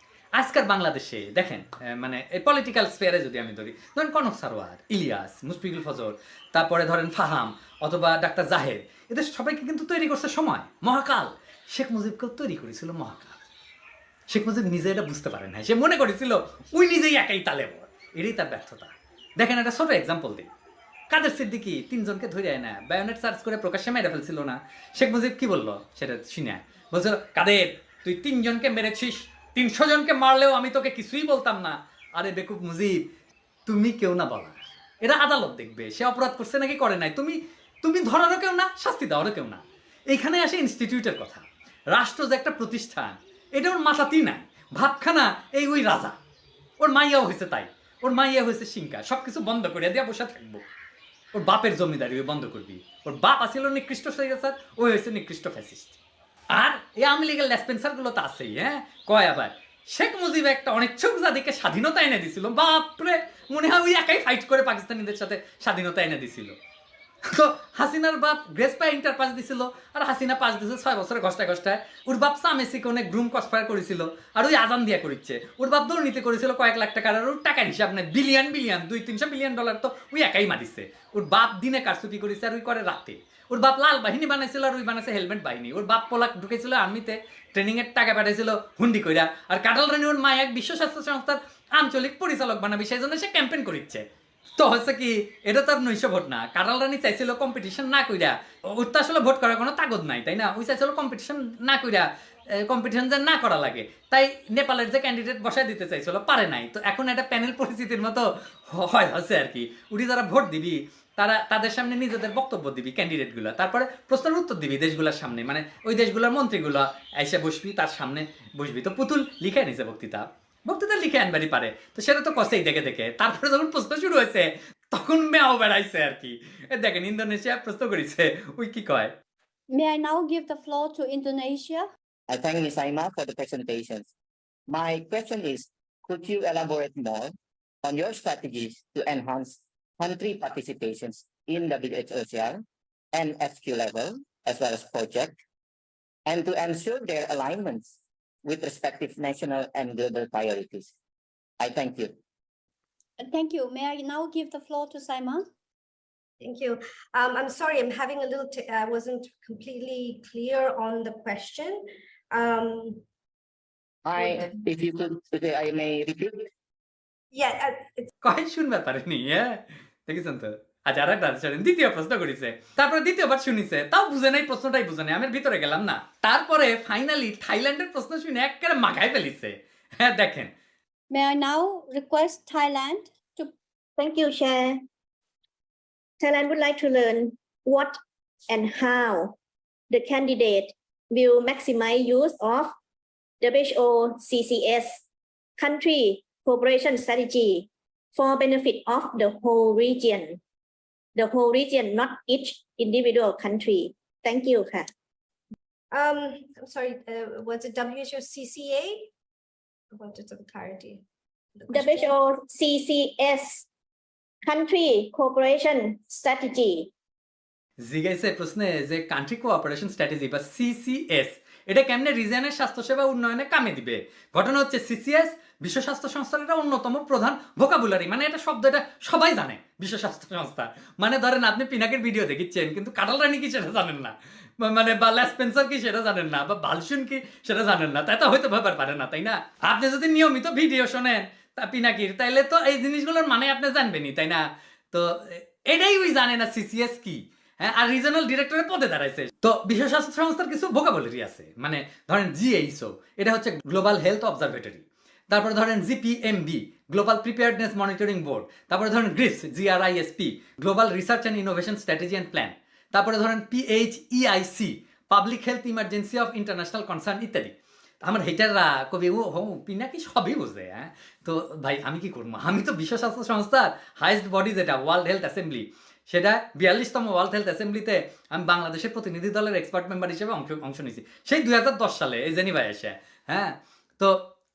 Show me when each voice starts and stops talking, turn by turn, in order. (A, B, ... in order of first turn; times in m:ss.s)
0:00.4-0:13.4 A
0:14.3-0:20.5 A
0:21.1-0:33.0 A
0:33.7-0:46.2 A
0:46.8-0:50.6 A
0:51.3-0:56.0 A
0:56.5-1:06.5 A
1:07.2-1:34.0 A
1:34.6-2:09.1 A
2:09.7-2:11.8 B
2:12.3-2:14.1 C
2:14.7-2:25.4 C
2:26.2-2:30.9 C
2:31.6-2:32.2 C
2:33.2-2:35.4 B
2:36.4-2:43.0 D
2:44.0-2:46.5 C
2:44.2-2:44.6 D
2:47.3-2:48.0 D
2:48.2-3:00.5 A
3:01.1-3:03.5 B
3:04.0-3:04.8 E
3:06.2-3:08.0 E
3:08.5-3:09.3 E
3:09.9-3:12.7 E
3:13.4-3:15.0 E
3:15.6-3:20.4 E
3:21.2-3:24.9 E
3:25.9-3:29.1 D
3:29.9-3:31.0 D
3:31.6-3:32.1 D
3:31.7-3:33.6 E
3:34.4-3:36.9 E
3:37.8-4:44.2 A